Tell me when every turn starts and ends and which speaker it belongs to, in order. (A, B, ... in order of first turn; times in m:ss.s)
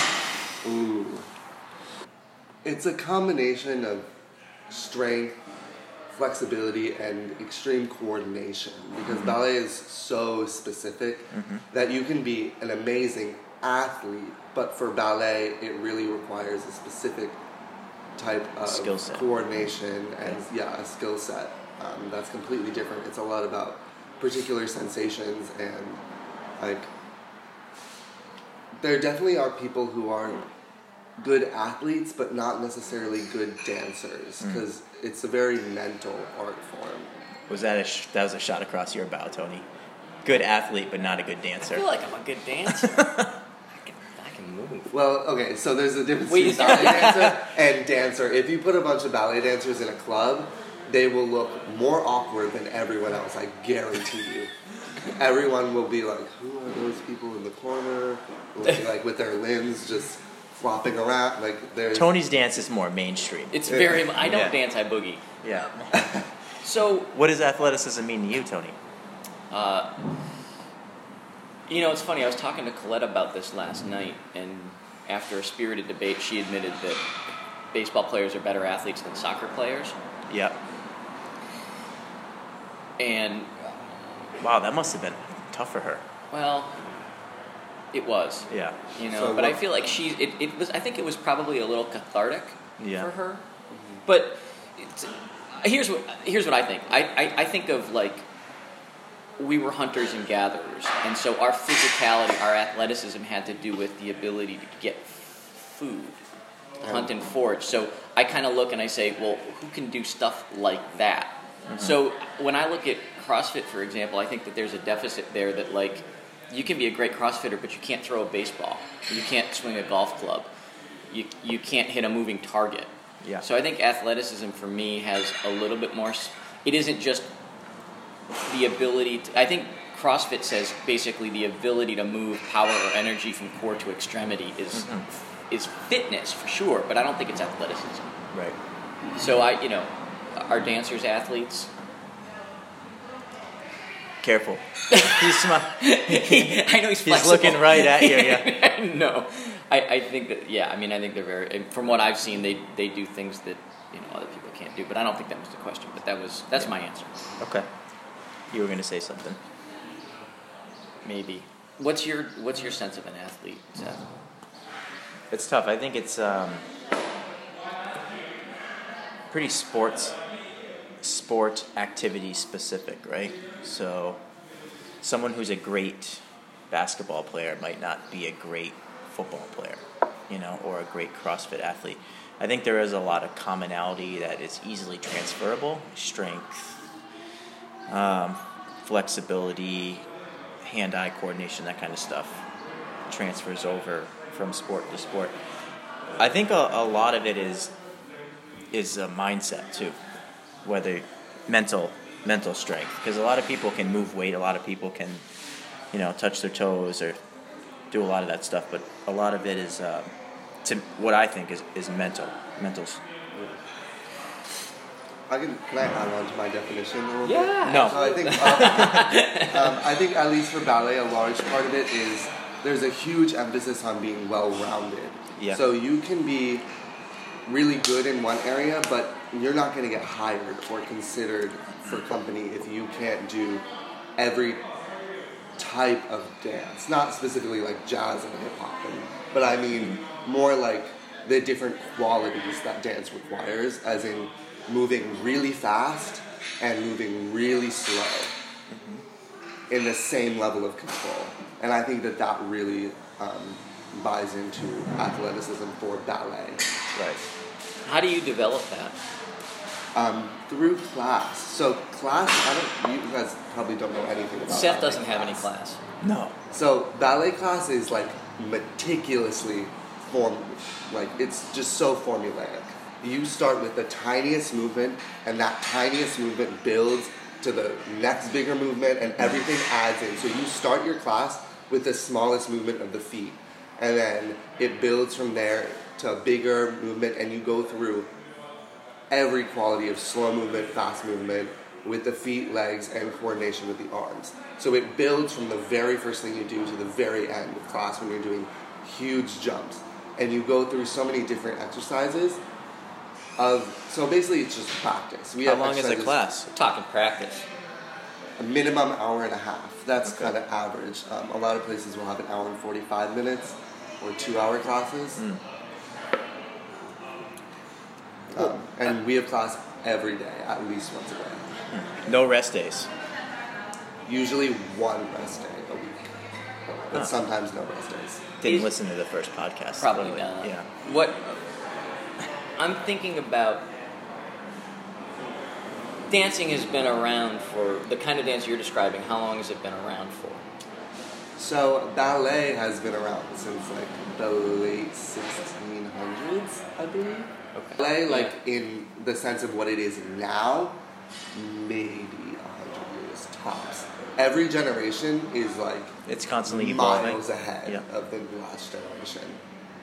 0:00.6-0:01.2 A
0:02.6-0:04.1 A
0:04.7-0:05.4 A
0:06.1-0:17.4 A
0:09.1-0:09.4 B
0:11.3-0:11.6 B
0:18.2-0:26.0 A
0:18.6-0:19.2 B
0:26.6-0:26.9 A
0:28.8-0:30.5 A
0:31.2-0:37.1 A
0:37.5-0:39.6 B
0:40.2-0:41.8 B
0:41.7-0:43.1 C
0:42.9-0:43.3 B
0:43.7-0:44.9 C
0:44.9-0:54.5 A
0:46.3-0:47.4 C
0:55.1-1:02.2 A
1:01.9-1:04.6 B
1:03.5-1:05.7 C
1:05.4-1:05.9 B
1:05.9-1:06.2 A
1:06.6-1:07.1 C
1:07.1-1:08.8 B
1:09.5-1:10.0 C
1:11.7-1:17.0 C
1:17.7-1:20.0 C
1:20.3-1:20.6 B
1:23.0-1:23.8 C
1:24.4-1:26.0 B
1:26.3-1:26.8 C
1:27.9-1:33.4 C
1:28.5-1:28.8 B
1:29.1-1:29.6 A
1:32.8-1:33.1 B
1:34.0-1:38.2 C
1:39.4-1:46.2 C
1:46.8-1:47.1 A
1:46.8-2:00.5 C
1:51.7-1:52.0 B
2:01.1-2:07.3 C
2:08.5-2:14.9 C
2:14.8-2:15.0 B
2:15.5-2:18.1 C
2:19.2-2:21.7 C
2:24.2-2:28.5 B
2:24.9-2:37.1 C
2:37.4-2:37.6 B
2:38.5-2:39.4 B
2:41.0-2:44.0 C
2:45.3-2:46.6 B
2:49.3-2:50.1 B
2:51.0-2:54.2 B
2:55.0-3:06.8 B
3:07.9-3:10.0 B
3:10.6-3:12.4 B
3:13.1-3:15.4 B
3:16.2-3:17.7 B
3:18.7-3:20.0 B
3:20.6-3:25.2 B
3:25.9-3:27.2 B
3:27.9-3:30.1 B
3:30.6-3:33.0 B
3:33.3-3:33.6 A
3:35.3-3:46.6 A
3:37.2-3:39.8 C
3:37.6-3:39.1 B
3:45.4-3:45.6 B
3:47.4-3:53.6 A
3:54.2-3:54.6 A
3:55.6-4:08.3 A
3:59.7-4:00.0 B
4:08.7-4:09.0 B
4:09.7-4:16.7 A
4:17.0-4:17.2 B
4:17.8-4:19.0 C
4:20.0-4:25.5 A
4:24.5-4:25.8 C
4:26.0-4:26.3 B
4:26.5-4:48.1 A
4:49.1-5:02.4 A
5:03.4-5:06.2 A
5:05.4-5:06.5 B
5:06.5-5:07.5 C
5:08.4-5:15.2 A
5:10.1-5:10.3 B
5:18.3-5:21.5 A
5:21.7-5:22.9 B
5:24.0-5:26.1 A
5:26.7-5:28.3 A
5:28.4-5:30.7 B
5:28.4-5:28.7 C
5:29.8-5:31.4 C
5:32.6-5:33.7 C
5:36.1-5:40.4 C
5:41.4-5:50.8 A
5:47.5-5:48.3 C
5:51.3-5:59.4 A
5:56.1-5:57.8 B